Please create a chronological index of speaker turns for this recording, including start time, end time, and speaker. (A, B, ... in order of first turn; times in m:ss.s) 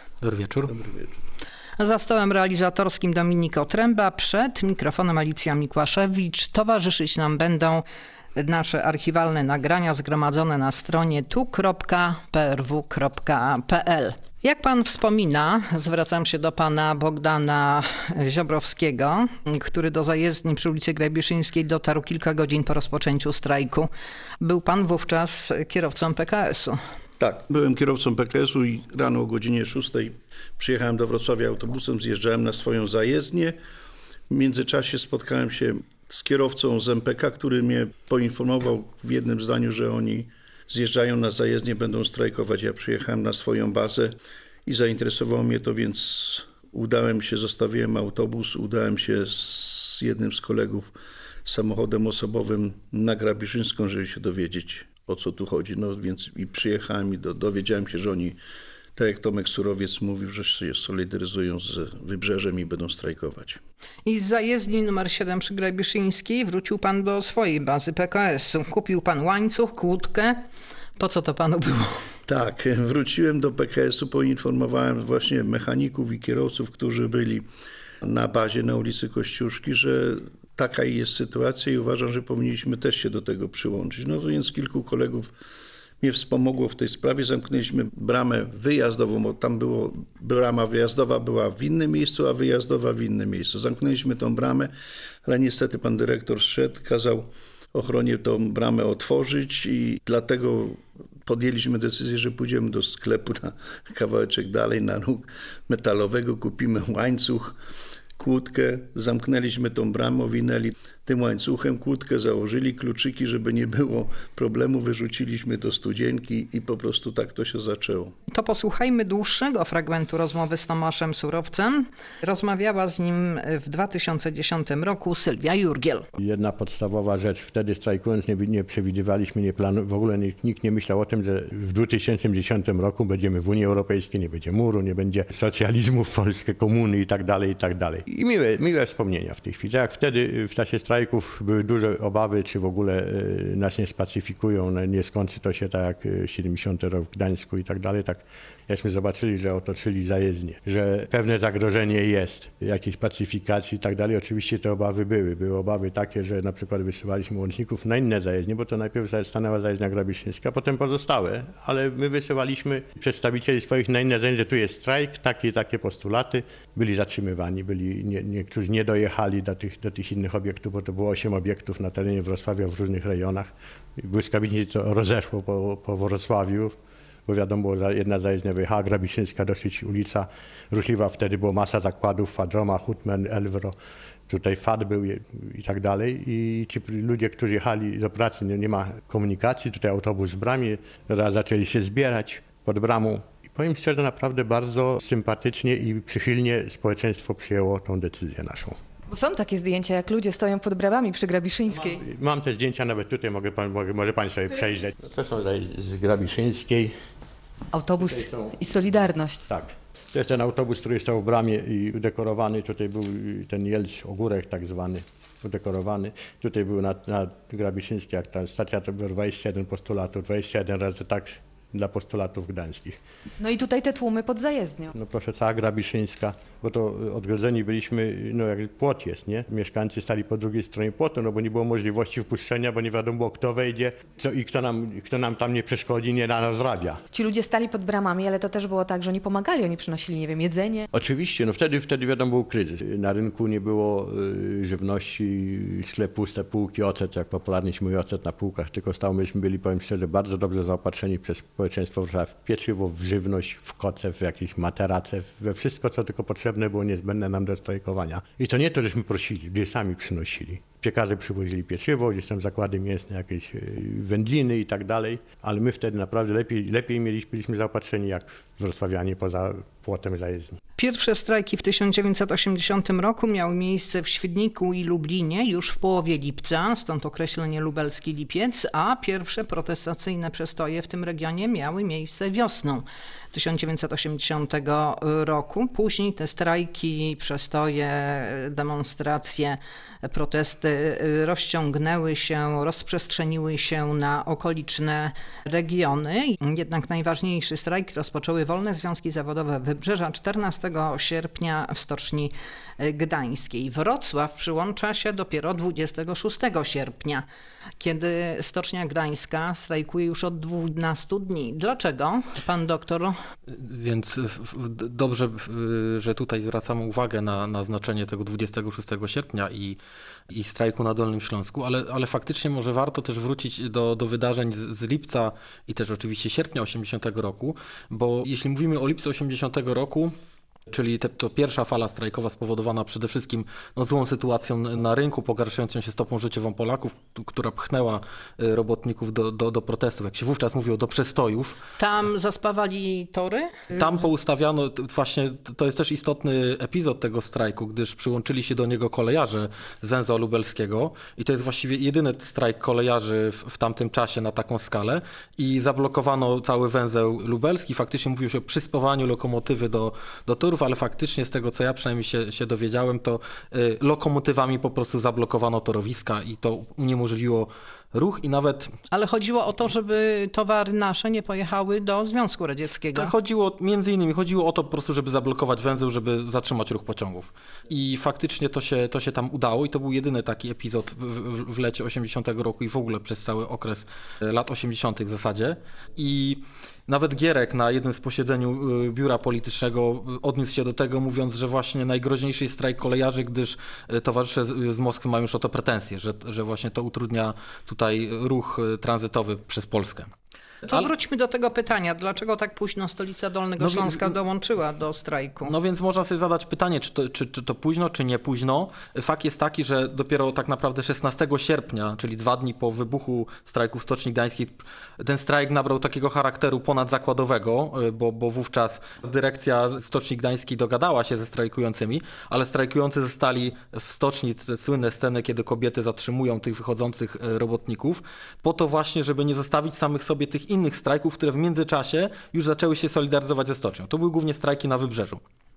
0:00.2-0:00.7 A
0:00.8-0:01.1 B
0:01.8-0:07.8 C
0:08.4-0:23.9 C
0:24.4-0:26.8 C
0:27.2-0:33.6 B
0:34.3-0:50.9 B
0:51.4-0:58.4 B
0:59.0-1:03.6 B
1:04.0-1:10.4 C
1:11.0-1:12.0 C
1:12.3-1:17.5 B
1:18.0-1:25.3 B
1:26.0-1:34.7 B
1:35.2-1:47.6 B
1:48.2-1:58.1 B
1:58.3-2:06.1 C
2:06.2-2:56.7 D
2:57.2-3:03.8 D
3:04.3-3:18.8 D
3:19.1-3:22.0 E
3:21.9-3:26.9 D
3:27.7-3:29.4 E
3:28.0-3:28.5 D
3:29.5-3:43.0 D
3:43.4-3:44.9 E
3:44.9-3:57.0 D
3:57.1-4:00.9 E
4:00.9-4:30.6 D
4:30.8-5:07.2 C
5:07.8-5:13.1 C
5:13.5-5:19.8 A
5:20.3-5:30.1 A
5:30.7-5:41.6 A
5:41.8-5:43.8 C
5:43.8-6:08.7 A
6:08.9-6:13.1 C
6:12.9-6:40.1 A
6:40.7-6:45.5 C
6:43.6-6:44.1 A
6:45.4-7:15.2 A